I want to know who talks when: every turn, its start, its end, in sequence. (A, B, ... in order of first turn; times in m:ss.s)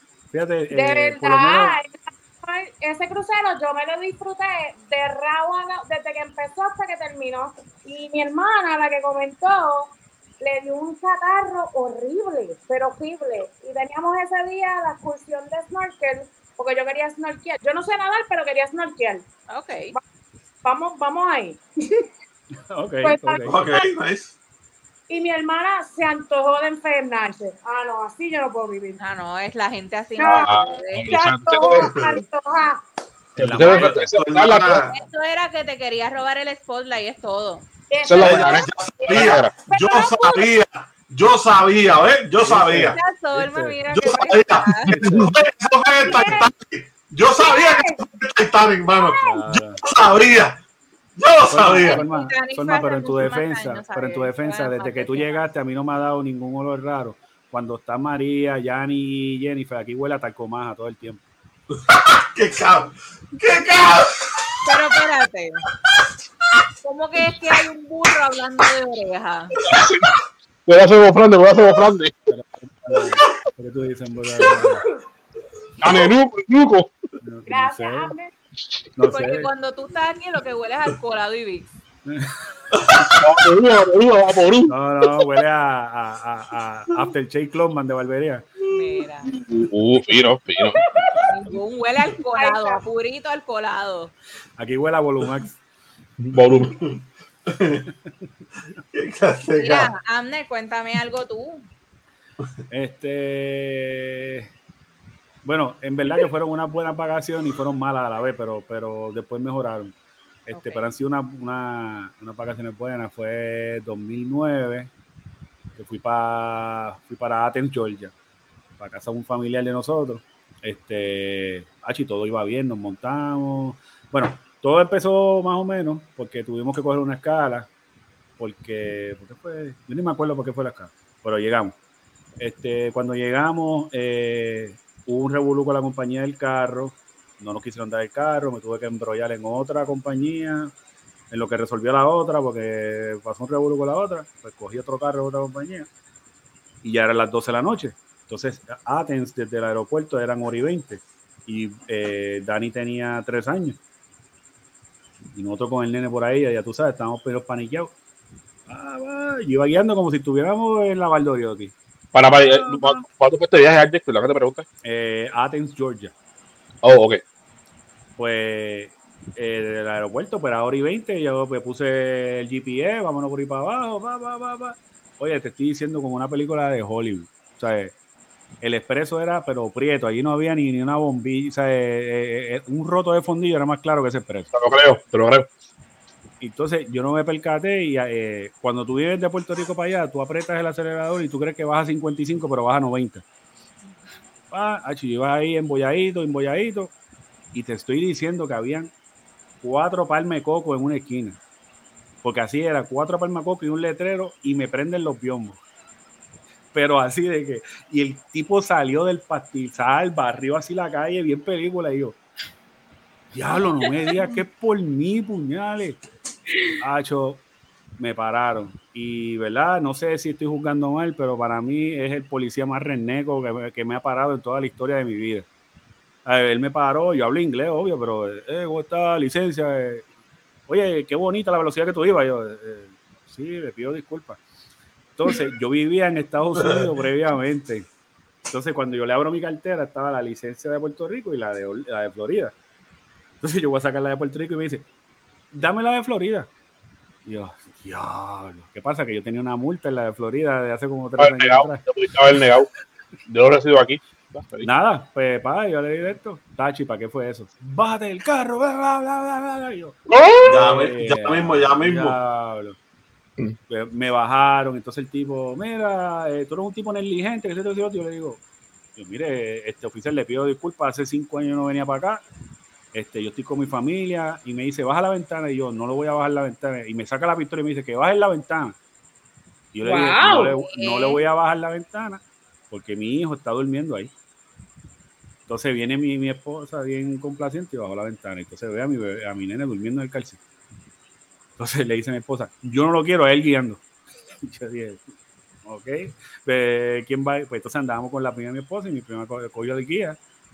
0:00.3-0:01.8 A
0:00.7-0:19.2 B
0:19.5-0:19.9 C
0:20.6-0:22.0 B
0:22.7-0:23.7 A
0:23.0-0:23.8 B
0:23.4-0:24.3 D
0:25.1-0:29.0 B
0:29.0-0:31.1 C
0:30.2-0:32.8 B
0:30.2-0:32.1 E
0:33.4-0:33.9 A
0:33.4-0:34.8 E
0:33.5-0:35.0 D
0:34.9-0:37.7 C
0:37.9-0:40.5 B
0:38.0-0:39.5 E
0:38.2-0:43.0 D
0:42.4-0:43.8 A
0:42.9-0:45.0 C
0:43.9-0:50.6 D
0:44.9-0:45.3 E
0:46.0-0:46.4 B
0:47.4-0:48.0 B
0:49.2-0:49.8 A
0:51.2-0:52.0 D
0:51.5-1:01.2 A
0:51.7-0:55.4 C
1:01.7-1:04.5 D
1:04.6-1:05.6 C
1:06.8-1:09.6 C
1:09.7-1:12.1 E
1:12.3-1:14.8 A
1:15.8-1:16.9 E
1:15.8-1:16.1 D
1:17.2-1:18.1 A
1:17.5-1:18.3 B
1:19.0-1:19.5 A
1:19.0-1:21.7 C
1:22.1-1:22.4 A
1:22.7-1:23.3 D
1:23.0-1:25.1 E
1:24.7-1:28.4 A
1:28.7-1:29.3 C
1:29.3-1:30.8 E
1:30.6-1:31.3 B
1:31.3-1:34.1 C
1:32.3-1:32.8 B
1:34.6-1:35.5 A
1:36.2-1:36.8 E
1:36.6-1:37.9 D
1:38.9-1:39.9 D
1:39.6-1:41.6 C
1:42.7-1:44.5 A
1:45.4-1:49.9 A
1:50.4-1:54.9 A
1:50.5-1:50.8 C
1:55.8-1:58.1 A
1:58.8-2:07.7 A
2:08.4-2:11.7 A
2:12.4-2:20.7 A
2:21.3-2:25.9 A
2:26.8-2:33.8 A
2:35.3-2:37.9 A
2:38.7-2:41.7 A
2:42.1-2:44.6 E
2:42.5-2:43.0 A
2:44.8-2:46.1 A
2:46.8-2:47.2 E
2:48.2-2:57.9 A
2:58.6-3:04.5 A
3:04.5-3:05.5 E
3:06.4-3:13.2 A
3:14.5-3:16.9 A
3:17.5-3:18.9 A
3:19.6-3:21.4 A
3:22.2-3:25.6 A
3:26.7-3:32.2 A
3:33.3-3:36.0 A
3:36.8-3:37.4 A
3:38.0-3:45.4 A
3:46.2-3:50.0 A
3:50.7-3:54.4 A
3:55.2-3:57.9 A
3:56.6-3:56.8 D
3:58.5-4:02.5 A
4:03.4-4:04.8 A
4:05.5-4:06.5 A
4:07.2-4:11.8 A
4:11.2-4:12.7 E
4:13.3-4:14.7 E
4:14.6-4:22.8 A
4:20.1-4:20.6 E
4:20.4-4:22.2 D
4:23.7-4:28.4 A
4:29.0-4:32.2 A
4:32.9-4:38.8 A
4:39.7-4:44.1 A
4:39.8-4:40.5 B
4:40.6-4:41.2 C
4:45.5-4:50.4 A
4:51.6-4:53.8 A
4:54.4-4:55.1 A
4:55.6-5:00.2 A